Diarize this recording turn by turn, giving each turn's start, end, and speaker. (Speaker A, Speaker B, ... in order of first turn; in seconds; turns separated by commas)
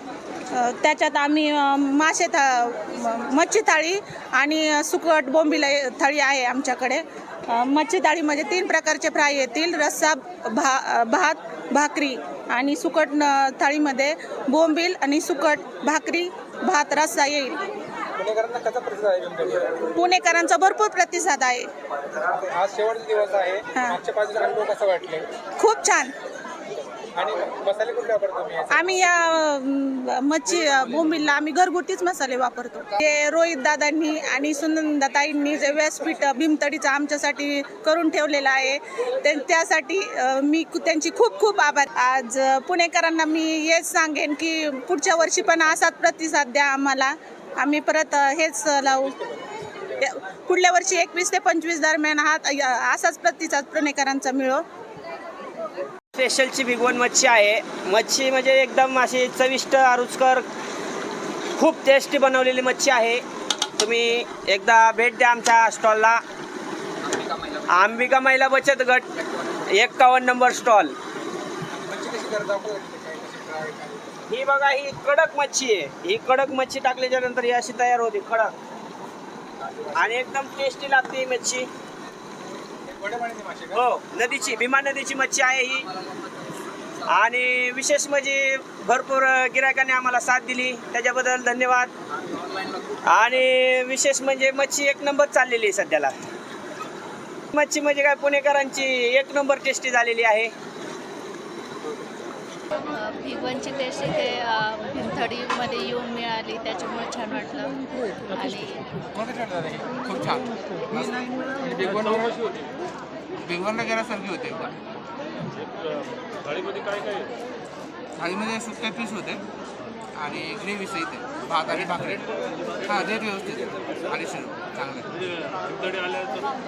Speaker A: 0.5-17.6, Speaker B: 18.1-19.8, Speaker A: 19.9-21.7, Speaker B: 22.3-25.3, Speaker A: 25.6-26.1, Speaker B: 27.1-28.9, Speaker A: 28.7-49.2, Speaker A: 50.0-54.6, Speaker C: 56.1-60.5, Speaker C: 61.6-63.2, Speaker C: 63.8-66.2, Speaker C: 67.4-71.0, Speaker B: 71.7-74.3, Speaker C: 74.3-78.5, Speaker B: 79.6-80.2, Speaker C: 80.0-81.7, Speaker B: 82.9-83.8, Speaker C: 83.7-85.9, Speaker C: 87.0-91.9, Speaker C: 92.8-96.1, Speaker C: 97.5-100.5, Speaker D: 102.8-108.8, Speaker B: 109.2-109.9, Speaker E: 109.9-112.3, Speaker B: 111.8-112.2, Speaker E: 113.4-114.7, Speaker E: 118.2-119.4, Speaker E: 120.1-122.3, Speaker E: 122.8-125.1